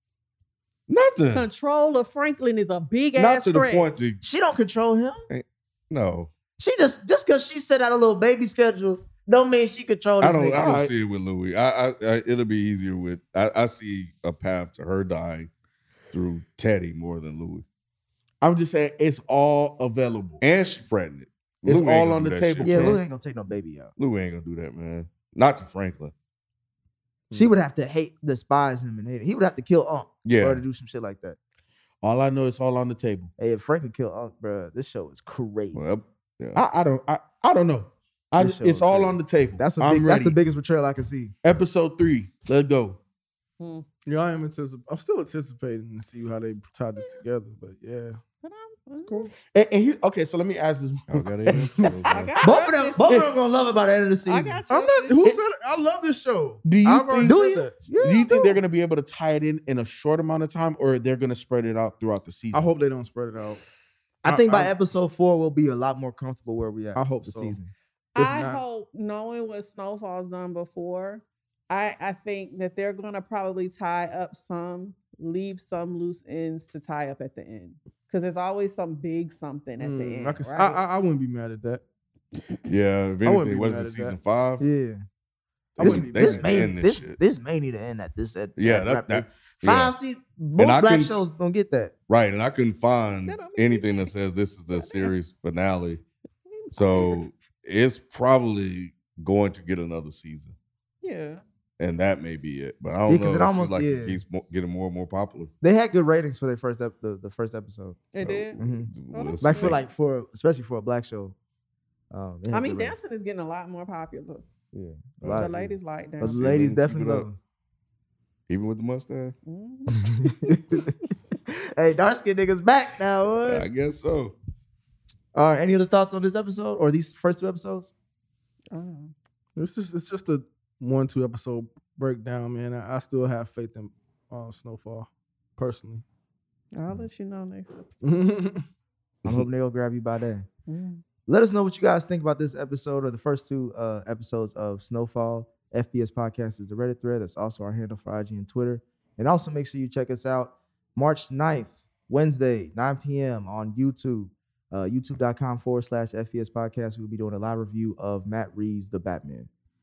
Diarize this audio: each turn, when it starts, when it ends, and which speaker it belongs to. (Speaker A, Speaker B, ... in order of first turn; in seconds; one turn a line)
Speaker A: 0.9-1.4
Speaker B: 1.3-3.9
Speaker A: 3.2-4.2
Speaker C: 4.2-5.2
Speaker A: 5.3-6.3
Speaker C: 6.6-10.8
Speaker A: 10.2-15.5
Speaker D: 10.6-10.9
Speaker A: 16.1-17.6
Speaker D: 18.4-20.4
Speaker A: 20.4-23.0
Speaker D: 21.6-23.0
Speaker C: 22.6-23.9
Speaker A: 24.0-26.1
Speaker C: 27.3-31.4
Speaker A: 30.2-30.6
Speaker D: 32.0-33.3
Speaker C: 33.4-35.9
Speaker A: 35.7-36.6
Speaker D: 36.5-40.4
Speaker C: 38.4-41.4
Speaker D: 41.4-43.0
Speaker B: 43.6-43.9
Speaker E: 44.1-48.2
Speaker B: 48.4-49.3
Speaker E: 49.0-49.3
Speaker D: 49.5-52.0
Speaker A: 51.1-52.4
Speaker B: 52.1-53.2
Speaker C: 52.4-54.6
Speaker B: 54.3-55.2
Speaker E: 54.7-58.5
Speaker D: 55.2-55.4
Speaker D: 56.6-57.4
Speaker C: 57.2-57.7
Speaker D: 58.0-62.7
Speaker E: 62.5-63.6
Speaker C: 64.2-67.7
Speaker E: 64.2-64.7
Speaker E: 67.0-67.6
Speaker B: 68.2-80.8
Speaker E: 68.2-68.6
Speaker E: 79.8-81.8
Speaker A: 82.7-84.6
Speaker E: 83.2-84.2
Speaker C: 84.6-85.0
Speaker E: 85.8-86.7
Speaker A: 85.8-87.2
Speaker C: 85.8-91.9
Speaker A: 88.6-89.9
Speaker A: 90.6-91.2
Speaker A: 92.1-96.0
Speaker B: 93.3-94.1
Speaker B: 94.7-95.1
Speaker B: 96.5-97.2
Speaker A: 96.7-100.5
Speaker B: 101.0-101.4
Speaker A: 101.8-105.5
Speaker C: 103.1-104.2
Speaker C: 105.6-108.0
Speaker B: 108.1-108.6
Speaker A: 108.2-109.8
Speaker C: 108.6-111.3
Speaker B: 109.1-109.8
Speaker C: 112.1-113.0
Speaker B: 112.5-114.4
Speaker C: 114.7-117.4
Speaker A: 115.2-115.5
Speaker B: 115.3-116.5
Speaker A: 116.2-117.3
Speaker A: 118.5-119.3
Speaker B: 119.5-120.6
Speaker C: 120.0-120.9
Speaker C: 121.5-123.7
Speaker A: 123.5-124.3
Speaker C: 125.3-127.9
Speaker B: 128.7-129.1
Speaker E: 129.6-136.0
Speaker B: 136.7-138.0
Speaker E: 138.0-138.6
Speaker C: 139.2-140.5
Speaker B: 140.7-141.0
Speaker C: 141.3-159.5